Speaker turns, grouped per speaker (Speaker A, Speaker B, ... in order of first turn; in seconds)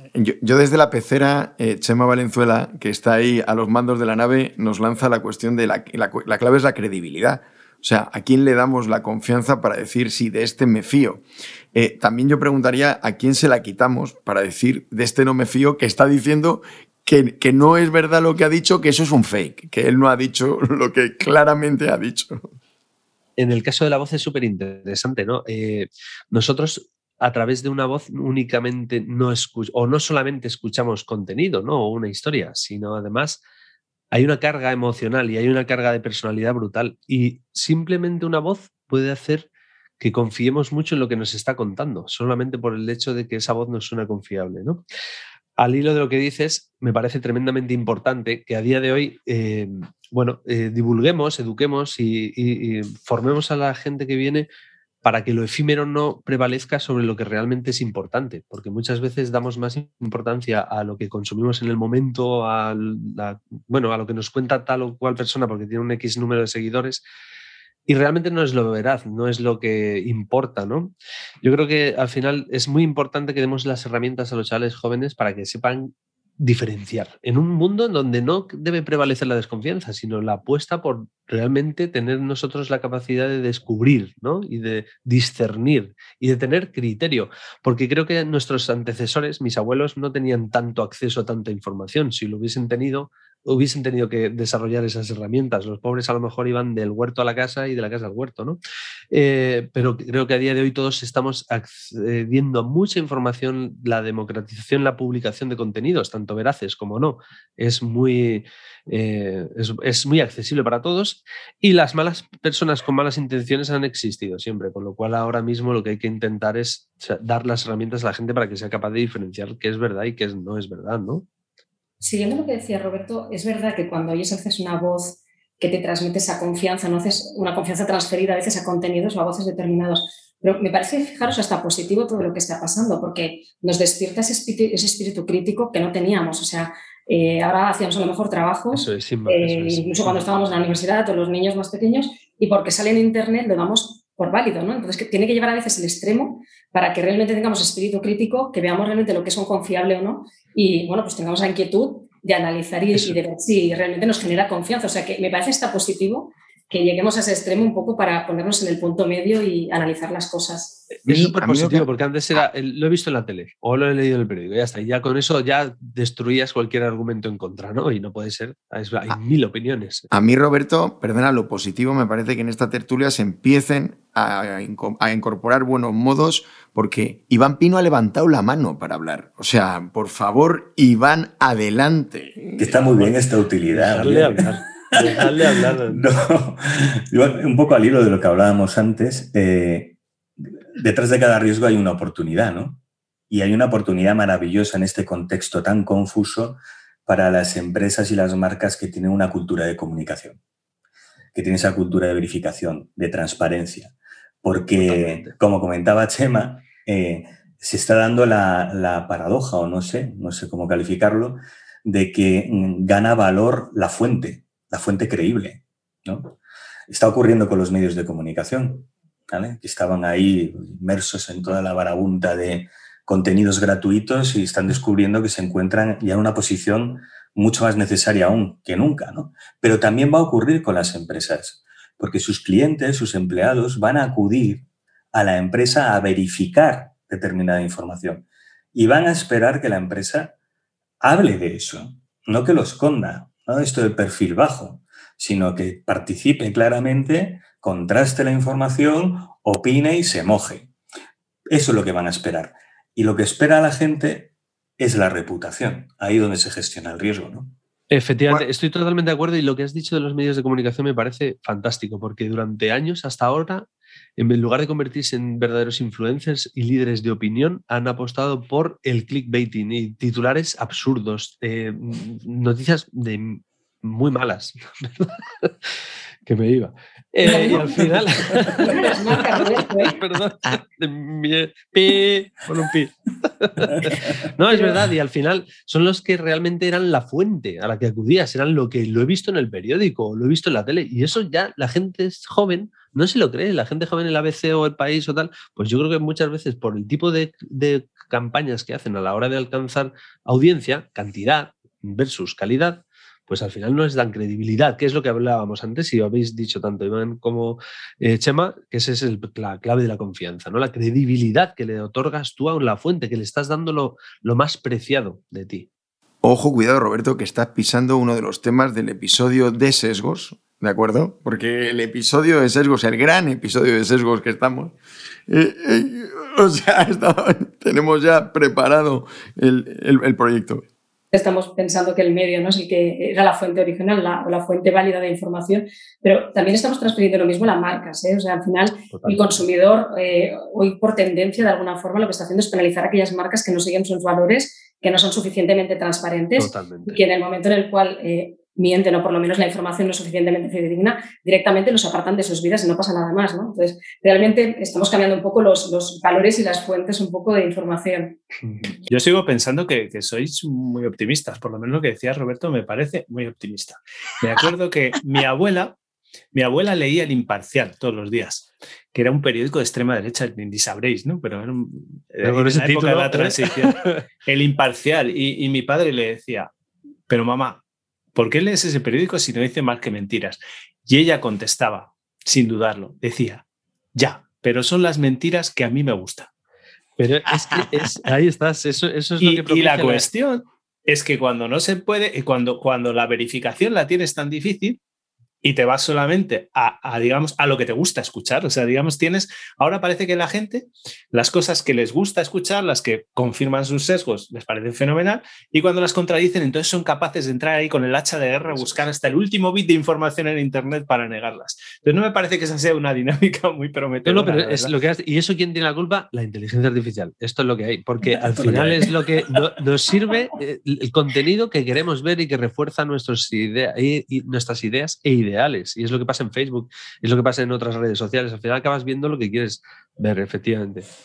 Speaker A: 0.1-22.5, 161.1-161.9, 170.1-182.8, 316.2-324.8, 325.3-330.6
Speaker B: 23.4-33.4, 34.1-39.5, 40.0-44.8, 45.6-54.5, 55.0-67.0, 67.9-98.6, 99.1-121.2, 138.7-140.7, 161.0-170.1, 183.7-186.1, 204.7-205.4, 257.9-263.7, 264.2-275.5, 276.2-315.7, 338.9-339.4, 346.4-347.0, 372.2-374.0, 387.0-390.1, 408.4-408.9, 414.1-430.9
Speaker C: 122.0-160.9, 277.2-280.0, 284.5-284.8, 331.1-358.2
Speaker D: 182.6-190.0, 190.8-192.8, 193.3-200.4, 201.3-203.9, 204.4-216.3, 216.9-238.2, 238.8-240.3, 241.0-250.7, 251.5-257.5
Speaker E: 358.9-365.8, 366.3-376.5, 377.1-377.6, 378.1-386.3, 389.2-394.8, 395.4-414.7